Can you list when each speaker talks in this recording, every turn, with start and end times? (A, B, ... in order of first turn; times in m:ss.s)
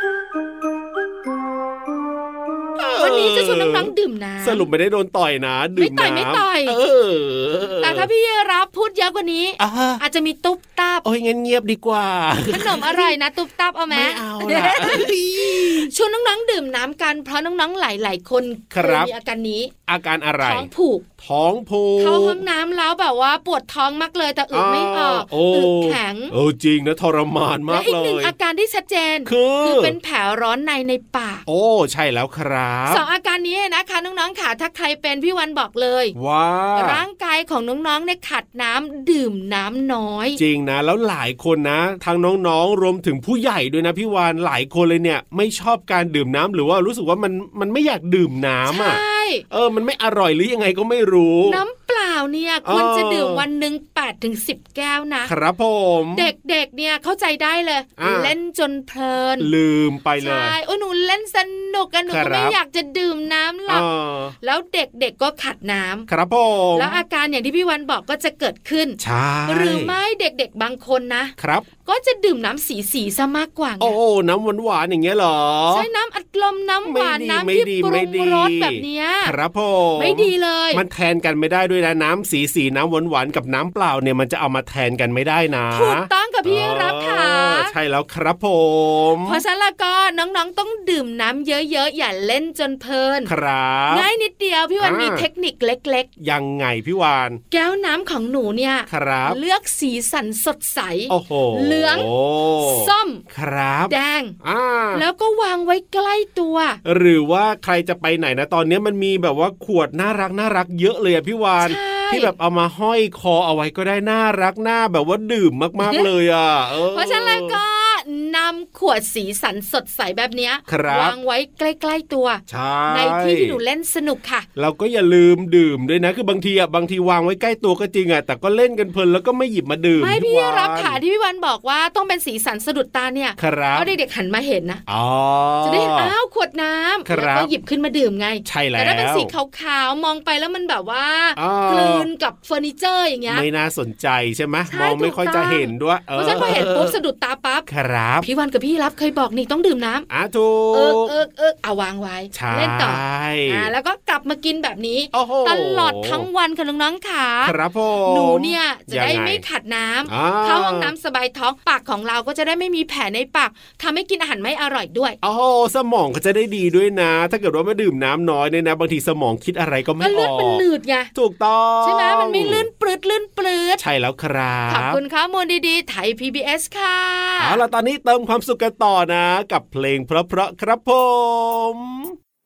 0:02.8-0:08.1 A
0:03.0-0:04.7 B
0:05.8-0:06.8 B
0:07.8-0:11.0 B
0:09.6-0:10.0 A
0:11.0-0:13.1 A
0:12.5-0:19.7 B
0:13.9-0:15.9 A
0:18.7-0:19.1 A
0:19.9-0:20.7 A
0:20.4-0:21.0 B
0:21.2-0:22.4 A
0:22.0-0:26.3 B
0:24.5-0:28.3 A
0:27.7-0:31.4 B
0:29.2-0:30.0 A
0:31.5-0:33.0 A
0:32.9-0:36.1 B
0:36.2-0:37.0 A
0:36.7-0:40.4 B
0:40.4-0:51.6 A
0:48.7-0:49.4 B
0:51.4-0:55.3 B
0:52.6-0:53.4 A
0:55.2-0:56.3 A
0:56.2-0:59.5 B
0:58.0-0:58.3 A
0:59.4-1:00.5 A
1:00.2-1:03.8 B
1:02.1-1:02.5 A
1:03.7-1:04.3 A
1:04.4-1:06.1 B
1:06.1-1:07.0 A
1:06.7-1:11.3 B
1:09.0-1:09.9 A
1:11.4-1:11.7 A
1:11.8-1:14.0 B
1:13.8-1:15.8 A
1:15.7-1:19.3 B
1:16.8-1:29.4 A
1:20.0-1:20.8 B
1:25.7-1:27.7 B
1:29.2-1:33.3 B
1:33.2-1:34.1 A
1:33.9-1:36.1 B
1:34.8-1:35.2 A
1:36.2-1:37.4 A
1:37.5-1:42.1 B
1:38.9-1:39.4 A
1:41.1-1:45.0 A
1:42.6-1:43.2 B
1:43.9-1:44.4 B
1:44.9-1:46.8 B
1:46.8-1:57.6 A
1:51.6-1:52.3 B
1:56.9-2:04.4 B
2:00.7-2:01.1 A
2:02.5-2:03.6 A
2:04.6-2:11.0 A
2:10.0-2:14.8 B
2:13.4-2:13.9 A
2:14.9-2:16.1 A
2:15.6-2:23.4 B
2:17.0-2:17.5 A
2:18.4-2:19.3 A
2:21.4-2:22.1 A
2:23.3-2:27.0 A
2:24.7-2:27.7 B
2:27.7-2:28.3 A
2:28.2-2:30.1 B
2:30.1-2:31.1 A
2:30.7-2:37.5 B
2:32.3-2:33.7 A
2:35.1-2:36.3 A
2:37.4-2:39.4 A
2:38.1-2:45.2 B
2:40.1-2:40.9 A
2:45.2-2:50.6 A
2:50.0-2:51.1 B
2:51.1-2:52.7 A
2:51.8-2:53.8 B
2:53.8-2:55.0 A
2:54.7-2:57.6 B
2:57.4-3:02.1 A